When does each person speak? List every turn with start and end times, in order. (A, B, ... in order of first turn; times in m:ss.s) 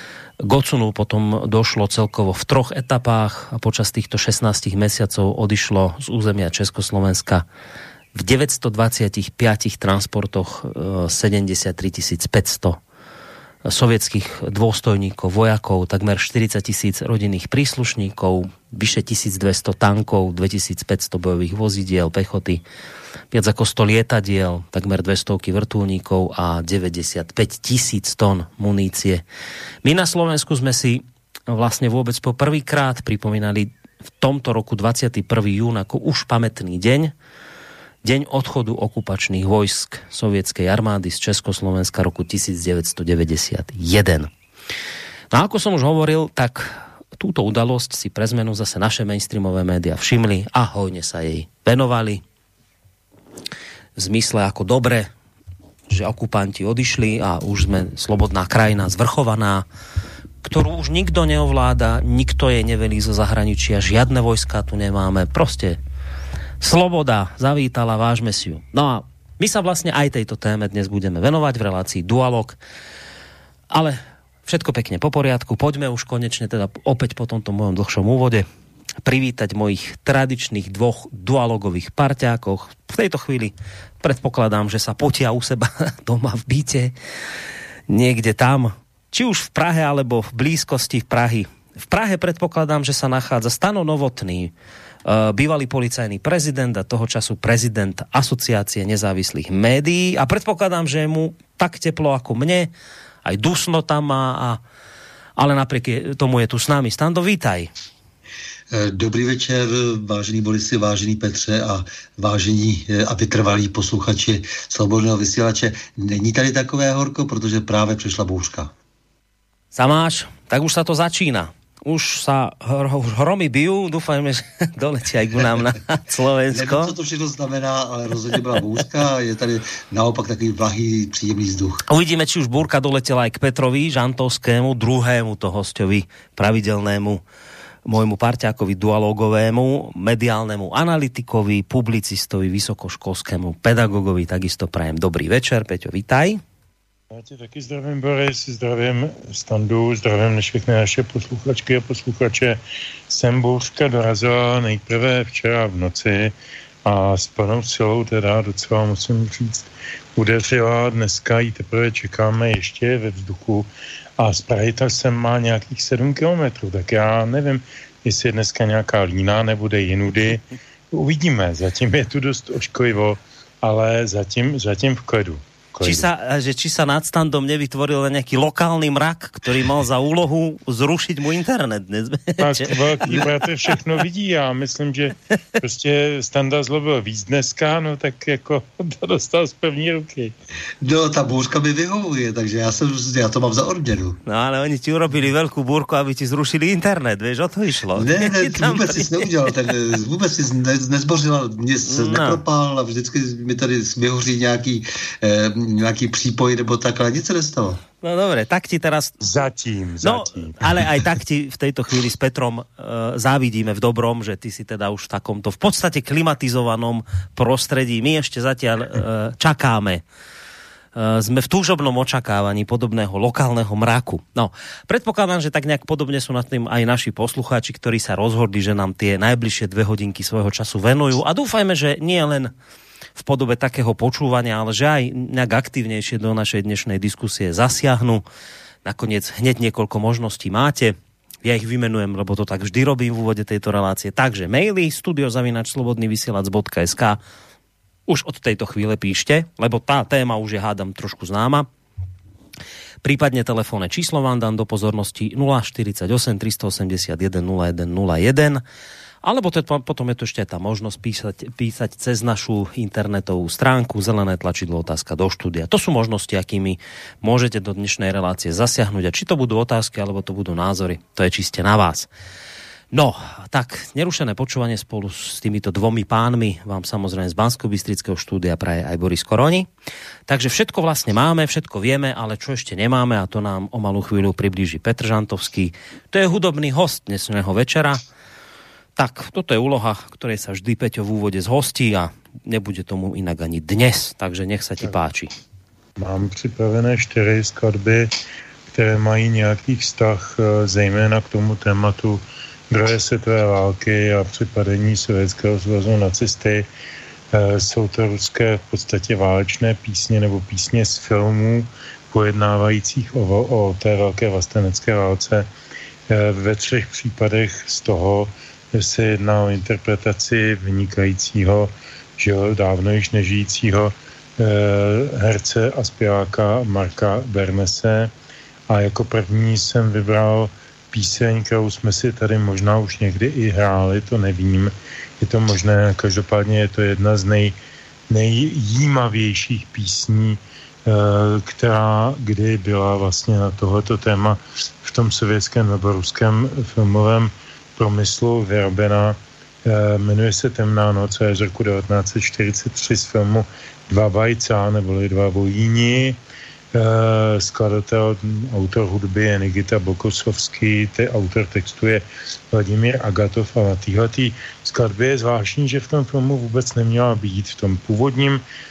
0:00.4-0:07.4 A
0:08.1-0:12.8 A
0:13.6-0:22.6 A
0:23.3-0:29.2 A
0:29.8-0:37.1 A
0:38.0-0:44.3 A
0:45.3-0:52.2 A
0:54.0-0:55.1 A
0:55.9-0:59.6 A
1:00.4-1:05.8 A
1:06.6-1:12.6 A
1:13.7-1:18.4 A
1:19.0-1:26.9 A
1:27.9-1:34.5 A
1:35.0-1:42.7 A
1:43.2-1:44.6 A
1:45.4-1:47.7 A
1:48.7-1:58.7 B
1:59.7-2:06.9 A
2:06.5-2:11.8 B
2:11.9-2:17.2 A
2:17.8-2:26.4 A
2:27.1-2:36.3 C
2:36.8-2:56.1 C
2:55.8-3:03.2 A
3:02.4-3:10.3 C
3:10.8-3:14.2 B
3:14.2-3:19.3 A
3:18.0-3:27.8 B
3:21.9-3:22.4 A
3:28.0-3:29.2 A
3:29.2-3:31.0 C
3:30.0-3:40.0 A
3:40.9-3:52.5 A
3:53.2-3:58.2 A
3:58.8-4:07.2 A
4:08.1-4:11.7 A
4:13.0-4:18.6 A
4:19.2-4:32.1 A
4:32.9-4:39.7 A
4:40.3-4:48.0 A
4:49.0-4:55.3 A
4:56.0-4:58.1 C
4:58.7-5:06.7 C
5:07.3-5:15.5 C
5:16.1-5:28.1 C
5:28.7-5:37.5 C
5:38.1-5:56.2 C
5:56.7-6:08.4 C